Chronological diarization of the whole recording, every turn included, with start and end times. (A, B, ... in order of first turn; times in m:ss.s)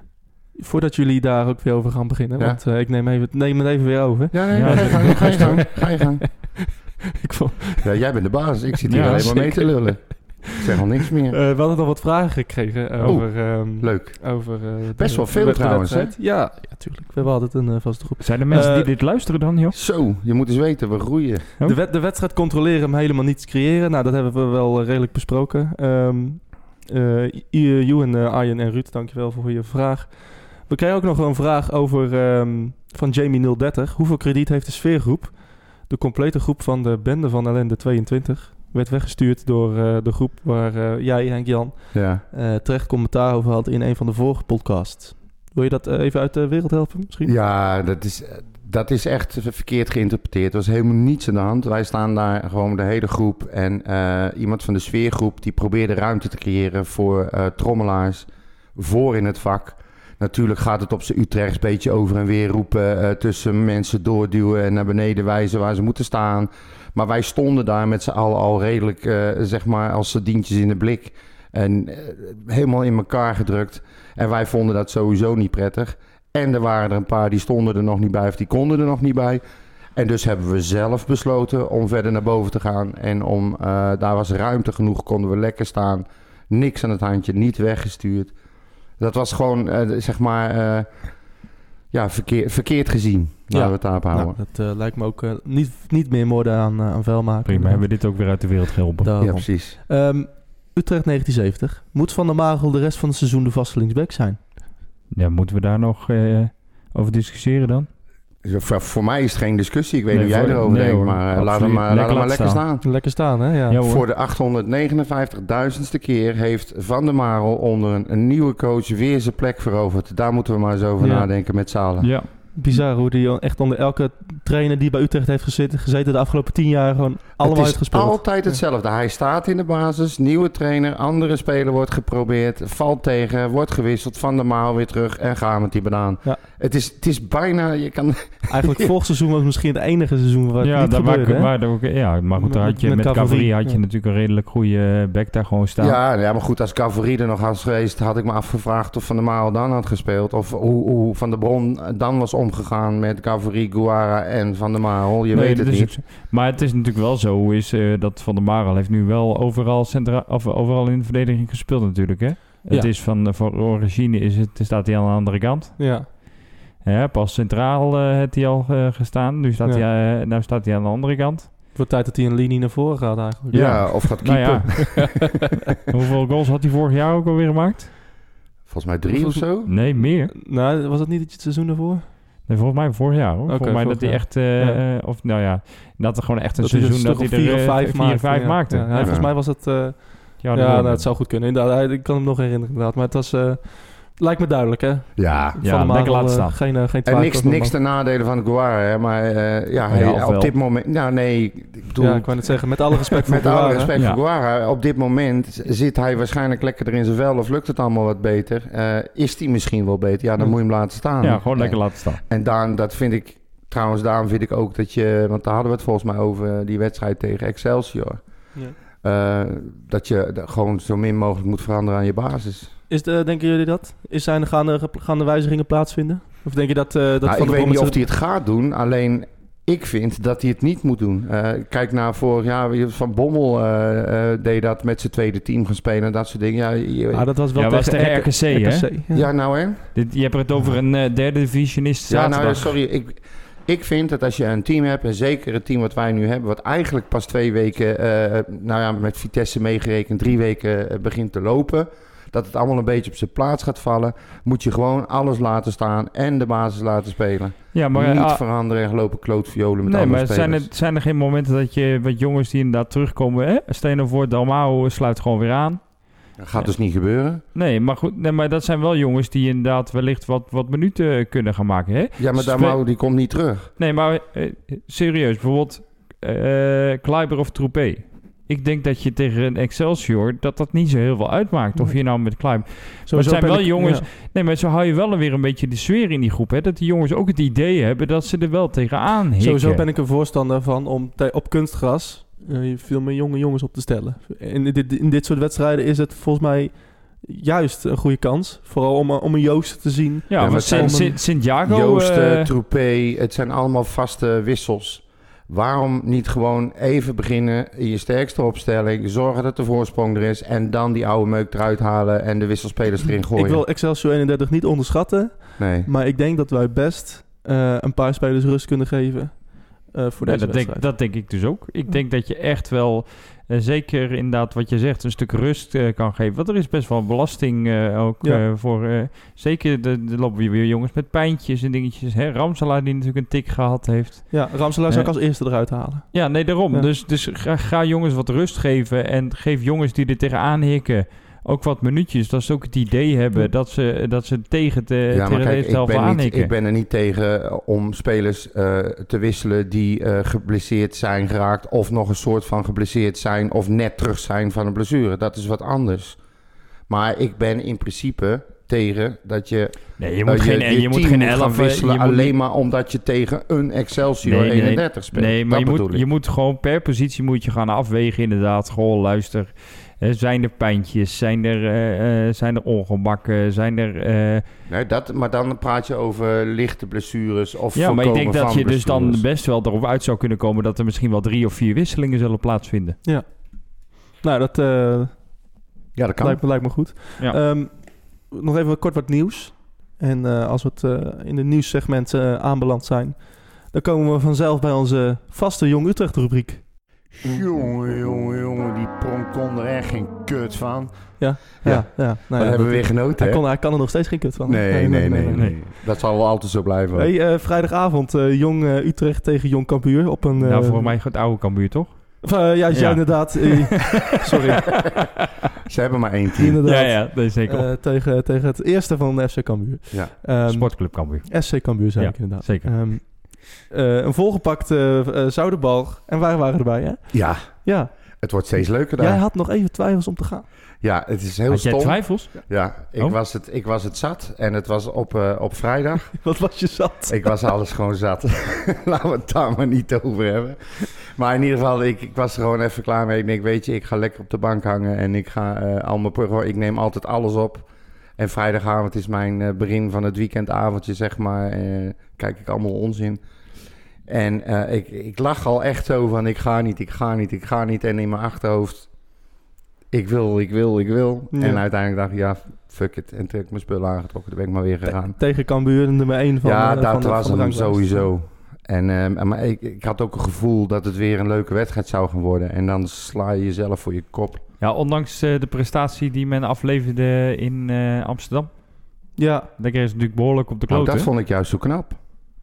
0:00.5-0:07.9 A
0:04.3-0:06.6 B
0:04.5-0:05.6 C
0:07.8-0:11.4 B
0:08.9-0:09.5 C
0:08.9-0:10.5 A
0:11.3-0:19.0 A
0:13.0-0:16.1 B
0:18.2-0:19.8 C
0:19.7-0:21.5 B
0:21.6-0:47.3 A
0:41.9-0:42.2 B
0:47.2-1:19.4 B
1:20.0-1:28.4 B
1:29.0-1:31.2 B
1:31.9-1:34.4 B
1:33.5-1:37.9 A
1:37.4-1:39.3 C
1:39.0-1:44.4 A
1:39.2-1:39.8 B
1:45.1-1:47.9 C
1:48.4-1:52.8 B
1:50.1-1:52.8 C
1:52.8-1:53.8 A
1:53.7-1:54.0 C
1:53.8-2:02.2 B
2:01.0-2:01.3 A
2:02.0-2:02.8 C
2:02.6-2:08.6 A
2:07.4-2:18.9 B
2:18.5-2:21.5 A
2:20.6-2:26.0 C
2:22.4-2:23.8 A
2:25.8-2:36.0 B
2:35.3-2:51.5 C
2:45.8-2:46.1 A
2:51.8-2:54.2 A
2:53.5-2:55.1 B
2:53.5-2:55.3 C
2:55.9-2:57.9 C
2:58.7-2:59.7 B
2:59.1-3:02.1 A
2:59.7-3:00.3 C
3:02.4-3:09.6 C
3:03.5-3:04.8 A
3:06.6-3:17.8 A
3:08.9-3:09.3 B
3:10.4-3:11.1 C
3:15.2-3:15.6 B
3:15.6-3:16.7 C
3:17.0-3:42.7 B
3:19.9-3:20.5 C
3:22.0-3:23.9 A
3:24.0-3:24.2 C
3:31.2-3:32.2 C
3:42.9-3:48.0 A
3:47.2-3:57.3 B
3:57.1-3:59.3 A
3:57.6-3:59.0 C
3:59.1-4:00.0 B
4:00.0-4:02.7 C
4:02.1-4:20.7 B
4:17.7-4:18.4 C
4:19.8-4:26.7 C
4:26.4-4:27.4 B
4:27.5-4:32.8 C
4:32.2-4:33.7 B
4:33.8-4:49.8 C
4:41.8-4:42.1 A
4:43.1-4:44.1 A
4:49.4-5:01.2 A
5:00.3-5:02.5 C
5:00.4-5:13.6 B
5:13.4-5:21.0 A
5:15.6-5:15.9 B
5:20.2-5:35.1 C
5:34.3-5:36.9 A
5:36.1-5:46.5 C
5:45.1-5:56.2 B
5:56.9-6:06.0 B
6:00.0-6:02.3 C
6:04.2-6:14.4 C
6:14.7-6:19.2 B
6:17.8-6:23.0 C
6:23.0-6:25.6 A
6:26.0-6:26.4 B
6:26.2-6:36.7 A
6:37.2-6:43.4 B
6:41.2-6:45.5 A
6:44.5-6:47.1 B
6:47.0-6:51.0 A
6:50.4-6:54.1 C
6:52.2-6:54.7 A
6:55.7-6:56.6 B
6:56.4-7:08.0 A
6:56.6-6:57.7 C
7:00.4-7:03.2 C
7:07.1-7:09.2 B
7:08.9-7:10.5 A
7:10.8-7:16.2 B
7:11.5-7:13.2 C
7:16.2-7:17.3 A
7:17.1-7:27.7 B
7:28.2-7:33.2 B
7:34.1-7:38.9 B
7:39.9-7:45.2 B
7:41.3-7:41.6 A
7:44.8-7:48.1 A
7:46.4-7:54.4 B
7:54.6-7:59.1 C
7:59.2-7:59.5 A
7:59.6-8:01.1 C
8:00.7-8:02.0 B